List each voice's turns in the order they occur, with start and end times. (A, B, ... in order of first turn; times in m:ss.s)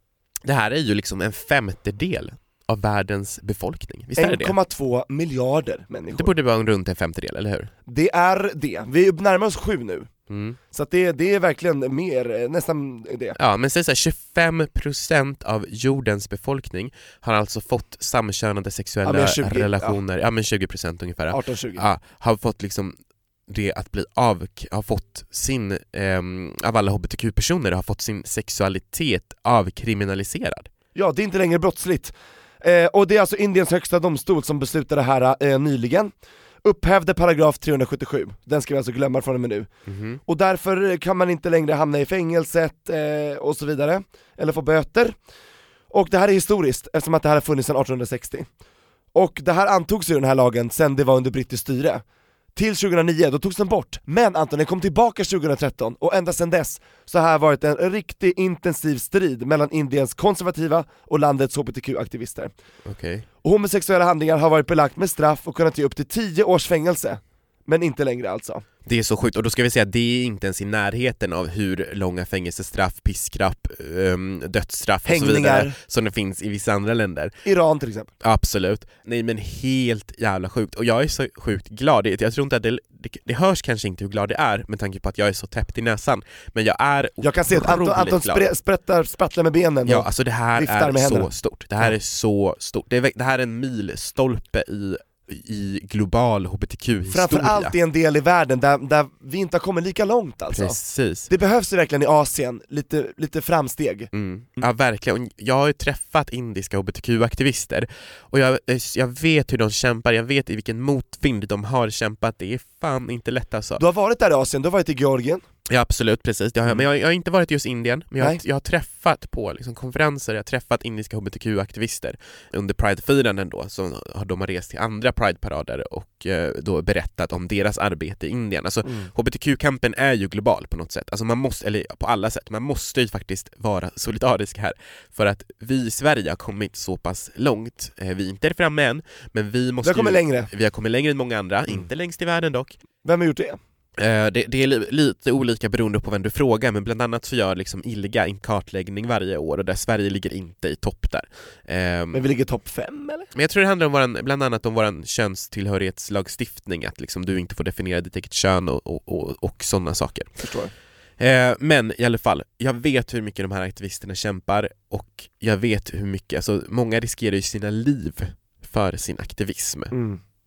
0:00.4-0:04.6 A
0:04.2-0:06.3 B
0:06.1-0:07.7 A
0:07.9-0:10.1 B
0:10.3-0:10.6 A
0:10.7-0:13.4 B
0:13.4-0:23.0 A
0:19.0-0:20.0 B
0:21.3-0:21.8 B
0:23.5-0:30.7 A
0:30.9-0:36.1 B
0:36.6-0:39.7 B
0:39.9-0:40.2 A
0:40.2-0:45.2 B
0:45.9-0:48.5 B
0:49.1-0:52.0 B
0:52.5-1:02.5 B
1:02.8-1:03.2 A
1:03.4-1:08.6 B
1:08.8-1:17.3 A
1:15.0-1:15.8 B
1:17.4-1:18.1 B
1:18.2-1:28.5 A
1:27.2-1:31.3 B
1:29.8-1:37.7 A
1:37.1-1:44.6 B
1:40.5-1:41.3 A
1:44.1-1:53.8 A
1:53.8-1:55.4 B
1:55.7-2:22.8 A
2:19.8-2:20.5 B
2:23.0-2:23.6 B
2:24.0-2:32.2 A
2:32.1-2:33.3 B
2:33.3-2:40.4 A
2:40.4-2:40.7 B
2:41.2-2:49.9 A
2:49.9-2:50.2 B